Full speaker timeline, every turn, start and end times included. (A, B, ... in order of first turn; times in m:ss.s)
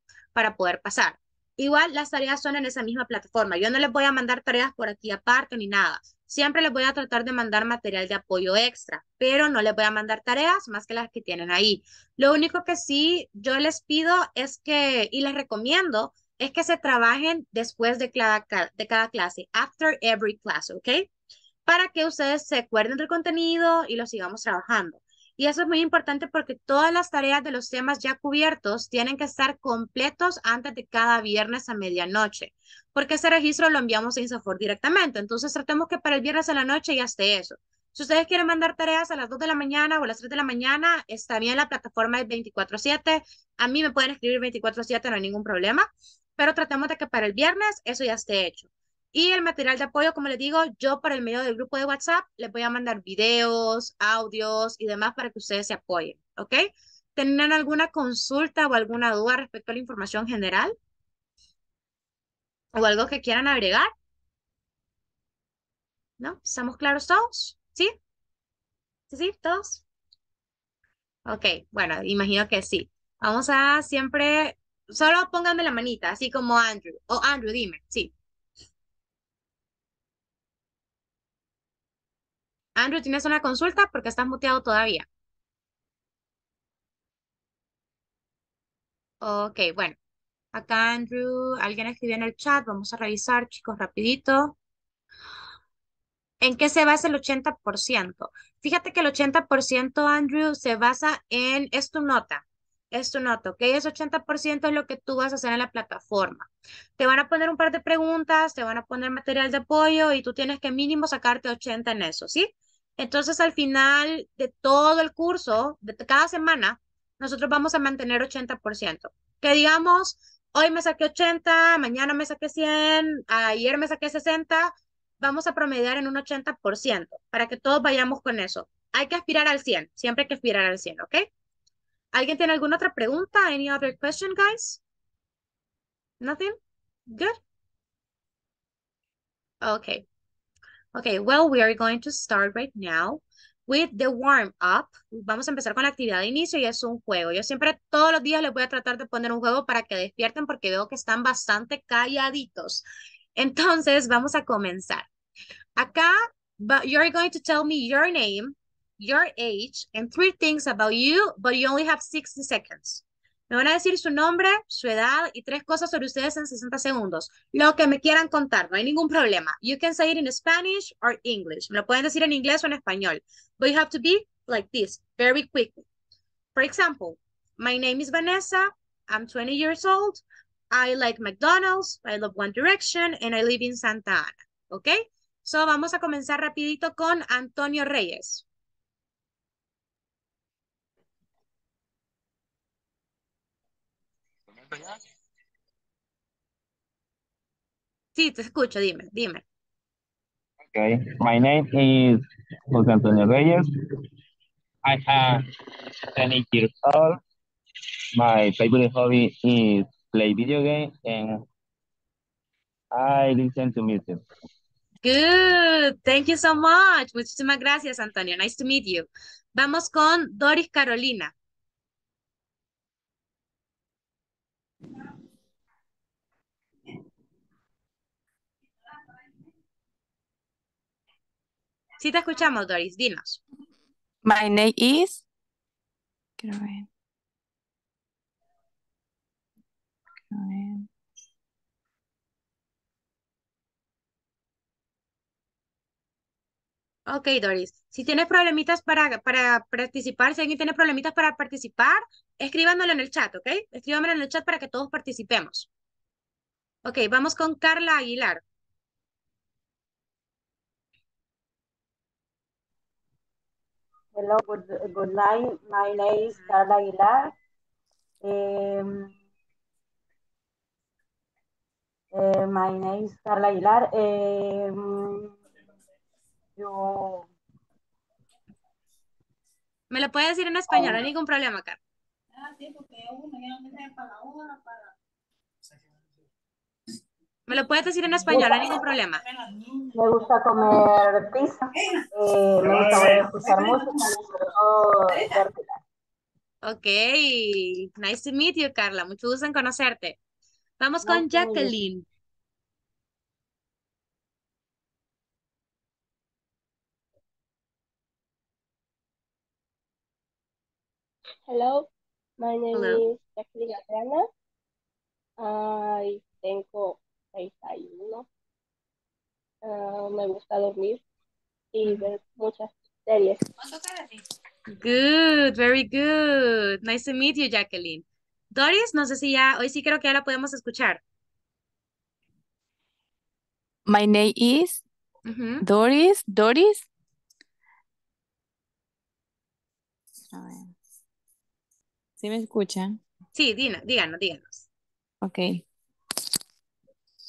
0:00.4-0:21.1 A
0:21.7-1:00.8 A
1:02.7-1:03.9 A
1:06.2-1:07.9 A
1:09.1-1:09.8 A
1:11.3-1:18.1 A
1:22.8-1:25.1 A
1:29.2-1:30.0 A
1:30.5-1:34.6 A
1:36.4-2:11.3 A
2:12.1-2:14.8 A
2:16.2-2:16.6 A
2:17.1-2:17.4 A
2:19.6-2:20.0 A
2:20.9-2:32.8 A
2:33.4-2:35.1 A
2:35.8-2:55.8 A
2:56.6-3:08.4 A
3:14.6-3:15.0 B
3:18.2-3:19.4 A
3:20.7-3:23.7 B
3:24.8-3:25.4 B
3:26.1-3:27.2 B
3:28.2-3:31.4 B
3:32.9-3:34.2 B
3:35.0-3:41.3 A
3:52.0-3:53.4 A
3:54.2-3:55.2 C
3:56.4-3:56.9 C
4:00.4-4:00.7 C
4:07.1-4:15.7 A
4:16.8-4:18.4 A
4:24.2-4:27.3 D
4:28.2-4:29.1 D
4:32.1-4:35.4 D
4:36.6-4:37.3 D
4:39.9-4:41.8 A
4:47.5-4:49.2 A
4:49.9-4:55.7 D
4:56.6-5:00.2 A
5:00.8-5:02.0 A
5:01.1-5:01.7 D
5:11.5-5:11.9 E
5:12.4-5:14.3 E
5:12.7-5:13.0 A
5:15.4-5:18.3 E
5:19.6-5:21.0 E
5:21.7-5:23.4 E
5:24.7-5:31.0 A
5:33.9-5:34.8 C
5:35.3-5:35.6 A
5:35.6-5:36.9 C
5:40.3-5:40.7 C
5:42.2-5:43.0 C
5:43.4-5:44.7 A
5:45.2-5:45.6 C